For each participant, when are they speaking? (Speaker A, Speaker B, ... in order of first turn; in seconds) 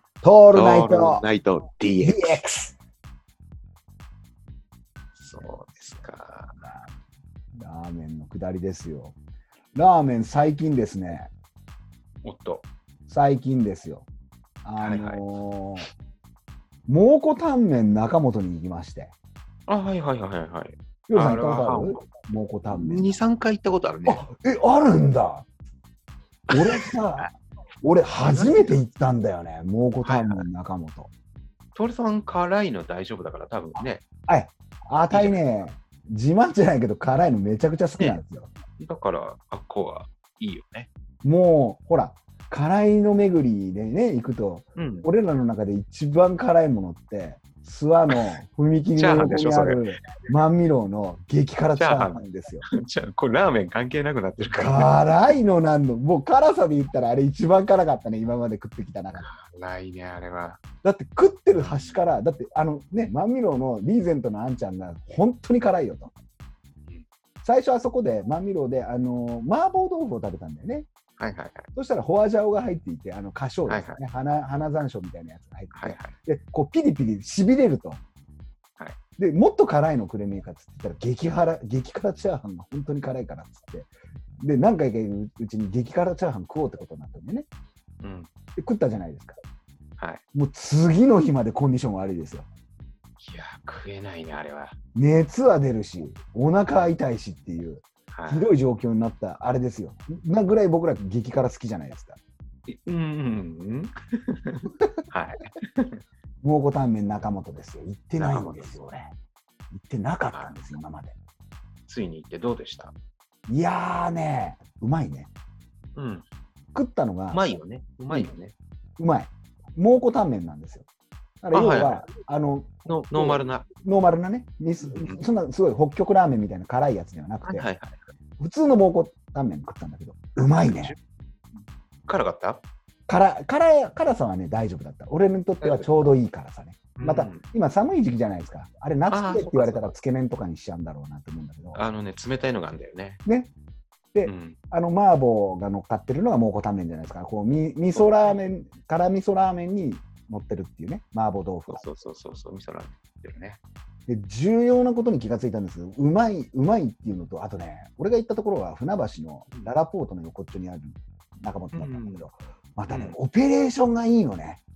Speaker A: 0.2-1.2, 2.0-2.8, 6.6-7.0, 7.5-9.2, 9.8-11.3, 13.1-14.1, 14.6-15.9, 16.9-19.1, 21.1-23.2, 24.1-25.5, 26.5-27.3, 27.8-31.1, 33.8-38.5, 41.2-52.6, 54.5-59.3, 60.8-66.1, 67.4-70.9, 71.7-78.0, 79.2-87.5, 88.6-89.4, 90.3-92.5, 95.0-102.2, 106.4-109.1, 109.7-111.2, 113.5-115.3, 116.7-117.5, 119.0-120.9, 121.4-127.7, 128.4-131.0, 133.1-141.8, 143.3-143.5, 144.1-151.8, 154.1-164.6
Speaker B: 0.5-2.4, 5.2-6.5, 12.2-12.7, 14.8-15.2, 19.7-22.1, 22.7-24.2, 26.5-27.3, 28.2-28.8, 30.0-30.4, 31.8-34.0, 35.1-35.5, 38.8-40.9, 44.8-45.1, 49.0-49.8, 51.8-54.9, 59.2-60.6, 61.5-62.0, 71.2-71.7, 73.7-74.0, 75.7-76.1, 88.0-88.3, 93.2-94.8, 98.1-98.5, 102.7-105.9, 108.2-108.7, 110.3-110.8, 111.9-112.9, 116.0-116.2, 117.3-118.5, 121.5-122.1, 122.9-123.7, 124.9-125.2, 127.4-128.0, 130.4-131.0, 132.1-132.6, 135.6-136.1, 137.0-137.4, 139.1-139.9, 141.8-143.2, 144.2-144.6, 147.9-148.4, 151.7-153.6, 161.7-162.3, 162.9-163.2